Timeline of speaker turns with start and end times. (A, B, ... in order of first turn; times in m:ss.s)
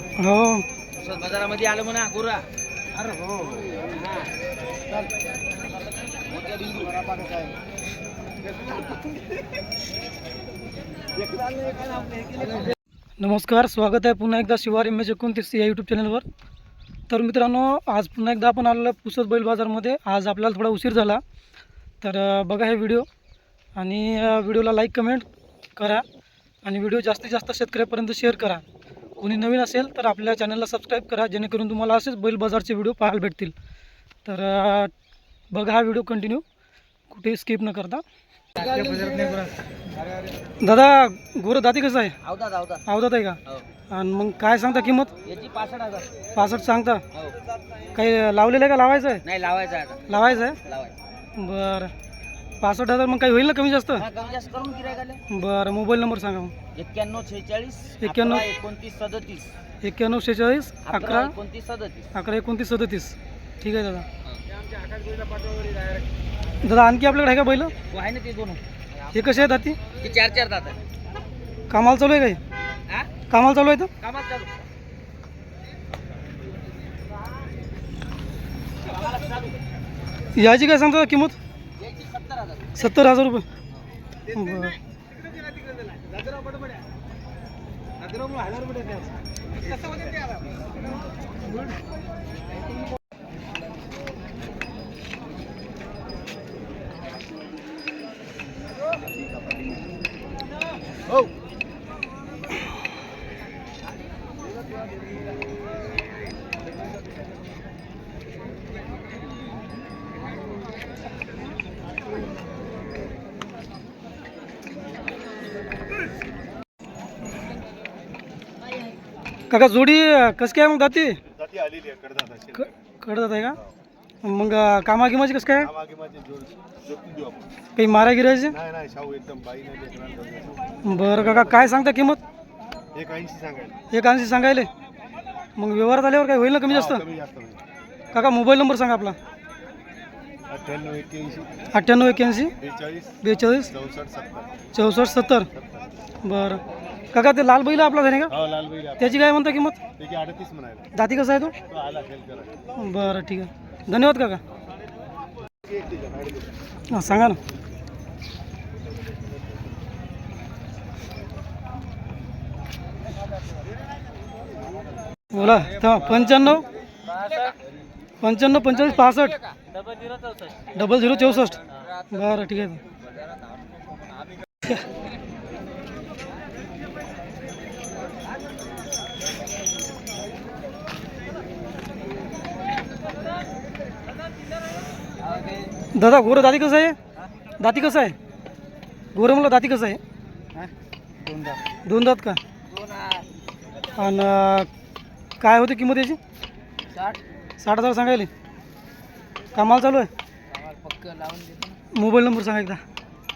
0:00.2-0:00.6 A
0:01.0-0:02.5 B
0:03.0-0:04.3 B
0:06.3-0:07.5 B
0:12.2-0:12.6 B
0:13.2-0:16.2 A
0:17.1-0:21.2 A
0:22.0-0:23.0 A
0:23.8-0:26.0 A
0:26.6-0:28.6 A
0:29.2-0:33.5 A
0:34.2-0:34.9 A
0:35.5-0:36.4 A
0:37.1-0:38.0 A
0:38.6-0:39.5 B
0:40.6-0:42.2 A
0:42.2-0:42.8 B
0:42.8-0:43.4 A
0:43.9-0:45.1 A
0:45.2-0:46.1 B
0:46.3-0:47.0 A
0:47.9-0:49.2 A
0:49.2-0:50.9 B
0:50.1-0:50.6 A
0:51.4-0:51.9 A
0:52.6-0:54.0 A
0:54.0-0:55.2 B
0:55.3-0:56.5 A
0:56.7-0:59.5 B
0:58.0-0:58.5 A
0:59.8-1:01.3 A
1:00.8-1:02.0 B
1:02.1-1:04.1 A
1:04.3-1:06.0 B
1:06.6-1:07.7 A
1:07.9-1:08.6 B
1:09.1-1:09.8 A
1:10.0-1:10.8 B
1:11.7-1:12.4 A
1:13.3-1:13.9 A
1:14.0-1:14.6 B
1:20.3-1:21.4 A
1:21.9-1:22.6 B
1:22.7-1:23.4 A
1:24.3-1:24.8 A
1:28.2-1:29.0 B
1:59.5-2:01.2 A
2:01.3-2:02.6 C
2:02.5-2:03.6 A
2:04.2-2:05.7 A
2:05.7-2:07.5 C
2:07.8-2:08.6 A
2:08.6-2:10.6 C
2:10.8-2:12.2 A
2:12.9-2:13.8 C
2:13.9-2:14.7 A
2:15.6-2:17.0 A
2:16.9-2:17.6 C
2:18.1-2:19.2 A
2:20.5-2:21.5 C
2:21.7-2:22.5 A
2:22.6-2:23.2 C
2:23.2-2:23.7 A
2:23.8-2:24.5 C
2:24.7-2:25.5 A
2:26.2-2:26.6 A
2:27.1-2:28.3 A
2:28.4-2:29.1 C
2:29.0-2:29.8 A
2:30.0-2:30.8 C
2:30.9-2:31.5 A
2:31.7-2:32.5 C
2:32.8-2:34.4 A
2:36.9-2:37.4 A
2:45.3-2:46.6 A
2:47.2-2:47.5 B
2:48.2-2:49.4 A
2:50.7-2:52.8 A
3:05.2-3:05.7 B
3:05.9-3:07.0 A
3:07.6-3:08.2 A
3:09.1-3:10.0 A
3:11.2-3:11.6 B
3:11.8-3:12.4 A
3:12.7-3:13.2 B
3:13.9-3:14.7 A
3:15.4-3:16.2 A
3:16.9-3:17.2 B
3:17.6-3:18.3 A
3:19.5-3:20.1 A
3:20.5-3:21.8 B
3:21.9-3:22.8 A